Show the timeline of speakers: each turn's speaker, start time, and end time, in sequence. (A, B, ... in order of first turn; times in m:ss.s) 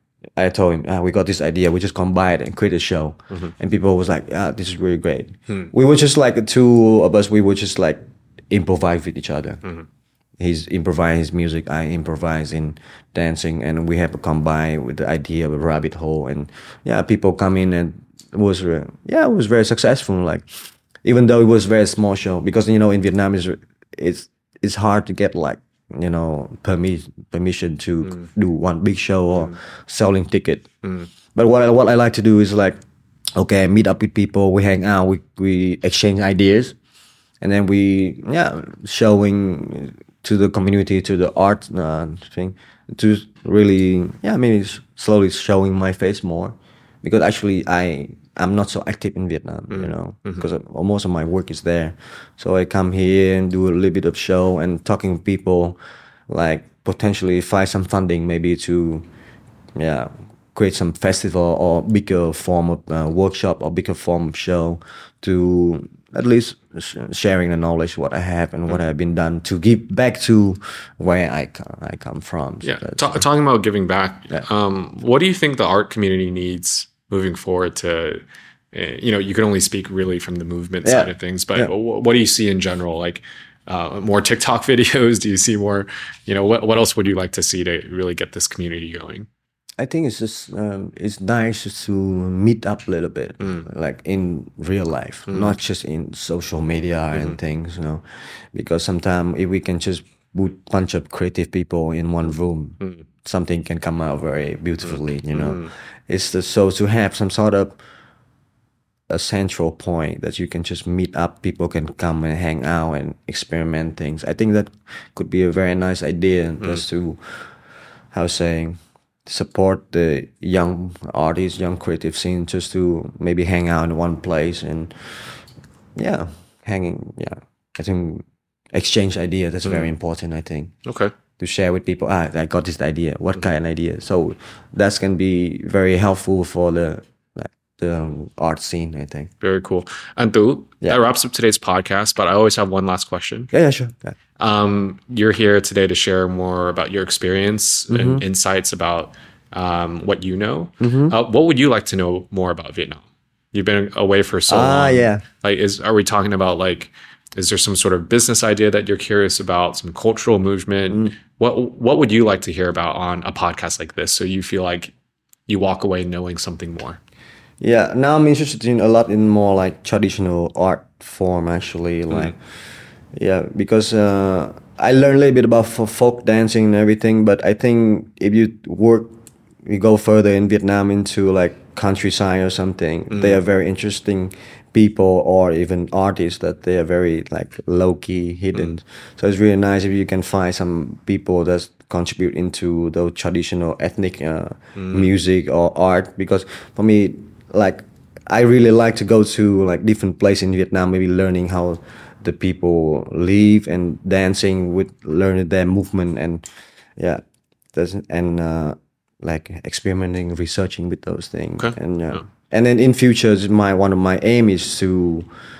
0:00.4-0:09.6 A
0:10.4-0:30.7 A
0:30.8-0:31.1 B
0:31.3-0:32.8 A
0:33.4-0:36.8 A
0:37.4-0:59.0 A
0:49.7-0:50.5 B
0:59.8-1:13.2 A
1:12.6-1:29.3 B
1:20.8-1:21.7 A
1:29.8-1:47.8 A
1:33.4-1:33.7 B
1:35.3-1:35.6 B
1:44.8-1:45.7 B
1:49.1-1:57.5 A
1:58.1-2:05.4 A
2:05.9-2:10.7 A
2:09.6-2:09.9 B
2:10.8-2:11.1 B
2:11.4-2:19.3 A
2:19.4-2:23.5 B
2:23.5-2:24.1 A
2:24.4-2:44.9 B
2:27.9-2:28.2 A
2:30.8-2:31.1 A
2:34.5-2:35.2 A
2:40.9-2:41.1 A
2:45.5-2:47.0 B
2:47.6-2:52.4 A
2:53.1-2:59.1 A
2:59.6-3:26.4 A
3:03.1-3:03.4 B
3:14.8-3:15.1 B
3:27.0-3:27.2 A
3:27.7-3:35.3 A
3:31.6-3:32.2 B